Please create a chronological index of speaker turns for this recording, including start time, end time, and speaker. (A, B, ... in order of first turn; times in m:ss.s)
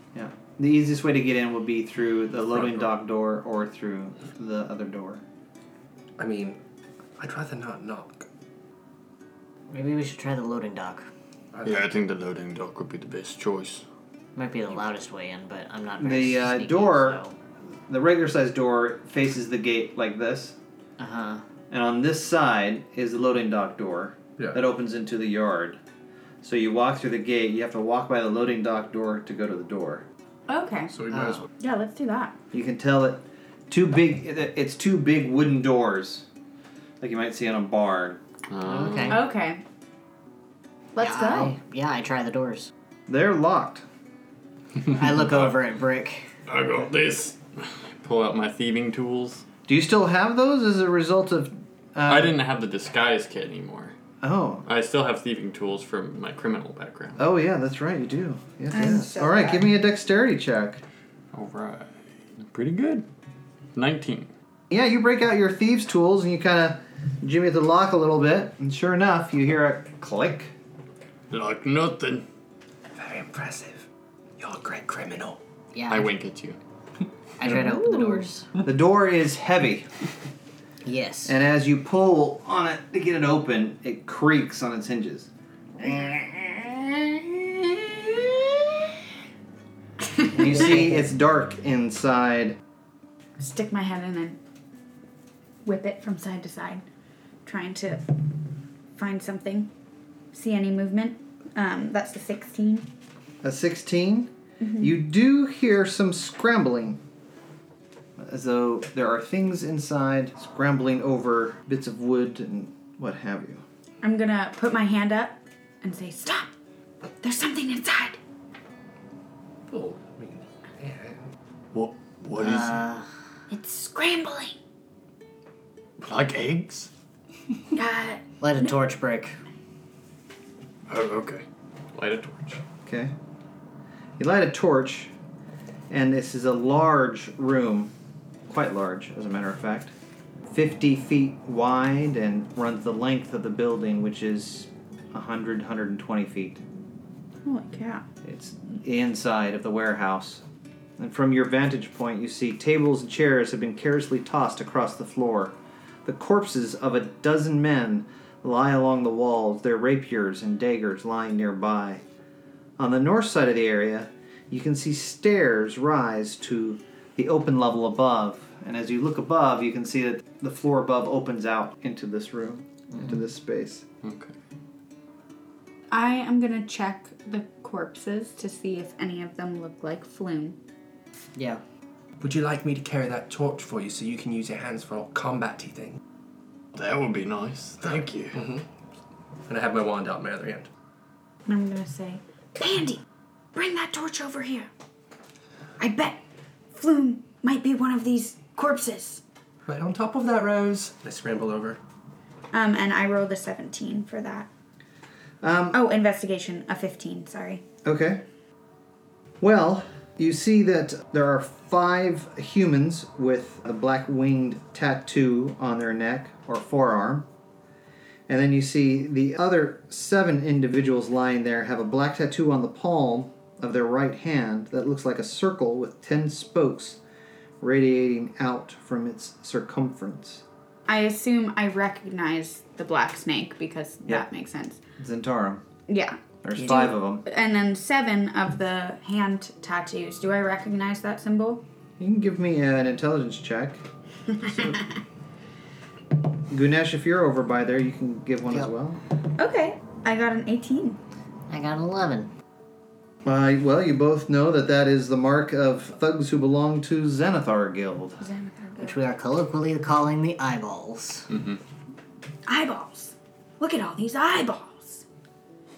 0:00.1-0:05.2 A
0:02.5-0:02.9 B
0:06.2-0:06.6 B
0:07.2-0:08.3 B
0:09.7-0:11.1 C
0:11.5-0:11.9 B
0:11.6-0:13.8 D
0:14.4-0:17.4 C
0:16.0-0:17.2 A
0:17.9-0:20.6 A
0:21.0-0:21.4 C
0:21.7-0:25.8 A
0:26.4-0:30.0 A
0:30.5-0:31.0 E
0:30.9-0:31.5 B
0:31.1-0:31.4 C
0:31.6-0:32.4 E
0:32.5-0:36.3 A
0:37.0-0:38.2 A
0:38.5-0:39.2 D
0:38.6-0:39.2 C
0:39.1-0:39.6 E
0:41.0-0:41.6 E
0:41.0-0:42.7 C
0:43.1-0:43.8 A
0:44.9-0:46.3 C
0:45.2-0:45.6 D
0:46.5-0:49.5 D
0:49.7-0:52.4 A
0:52.1-0:54.0 D
0:54.2-0:54.7 A
0:54.7-0:57.2 D
0:57.2-1:00.8 A
0:58.7-0:59.7 E
1:01.3-1:03.1 D
1:03.8-1:04.3 D
1:04.7-1:10.5 A
1:11.3-1:12.2 D
1:12.9-1:13.9 B
1:14.4-1:15.4 B
1:15.7-1:16.1 C
1:15.9-1:16.6 D
1:17.4-1:18.5 C
1:17.5-1:18.1 E
1:18.6-1:19.9 A
1:20.8-1:21.4 C
1:21.3-1:25.3 A
1:25.8-1:26.1 A
1:30.3-1:32.6 A
1:33.4-1:34.4 E
1:35.6-1:36.8 E
1:37.4-1:38.2 E
1:39.0-1:39.7 E
1:40.3-1:42.9 E
1:43.4-1:47.0 A
1:44.6-1:45.0 E
1:48.2-1:53.6 A
1:54.0-1:56.5 E
1:57.2-1:58.2 E
1:59.7-2:01.3 B
2:01.7-2:02.8 D
2:02.4-2:03.1 C
2:03.5-2:04.6 E
2:06.0-2:06.9 D
2:07.8-2:08.2 E
2:08.4-2:09.4 C
2:10.9-2:12.6 D
2:12.9-2:13.1 A
2:14.2-2:15.1 A
2:15.9-2:17.9 A
2:18.5-2:19.9 A
2:20.5-2:26.6 A
2:27.4-2:28.0 E
2:28.2-2:30.4 A
2:31.0-2:42.0 A
2:42.8-2:53.8 A
2:54.0-2:54.3 D
2:55.9-3:00.6 E
3:01.4-3:01.6 C
3:02.2-3:06.0 B
3:06.7-3:08.4 D
3:07.9-3:08.6 B
3:09.5-3:10.7 B
3:11.5-3:13.0 E
3:13.5-3:14.7 E
3:15.8-3:16.2 E
3:16.7-3:19.2 E
3:19.7-3:21.8 B
3:22.5-3:24.5 E
3:25.4-3:25.8 A
3:25.7-3:27.6 E
3:27.8-3:28.2 A
3:29.4-3:37.3 A
3:38.3-3:47.0 A
3:47.6-3:50.4 A
3:50.9-3:54.8 E
3:55.0-3:55.6 A
3:55.9-4:01.6 E
3:56.4-3:57.2 A
4:02.0-4:03.8 A
4:04.4-4:04.8 E
4:04.5-4:04.8 A
4:06.5-4:09.0 A
4:09.4-4:11.0 E
4:11.5-4:12.3 C
4:13.2-4:18.2 A
4:18.2-4:19.0 E
4:18.8-4:21.3 C
4:21.3-4:21.6 D
4:22.5-4:25.0 E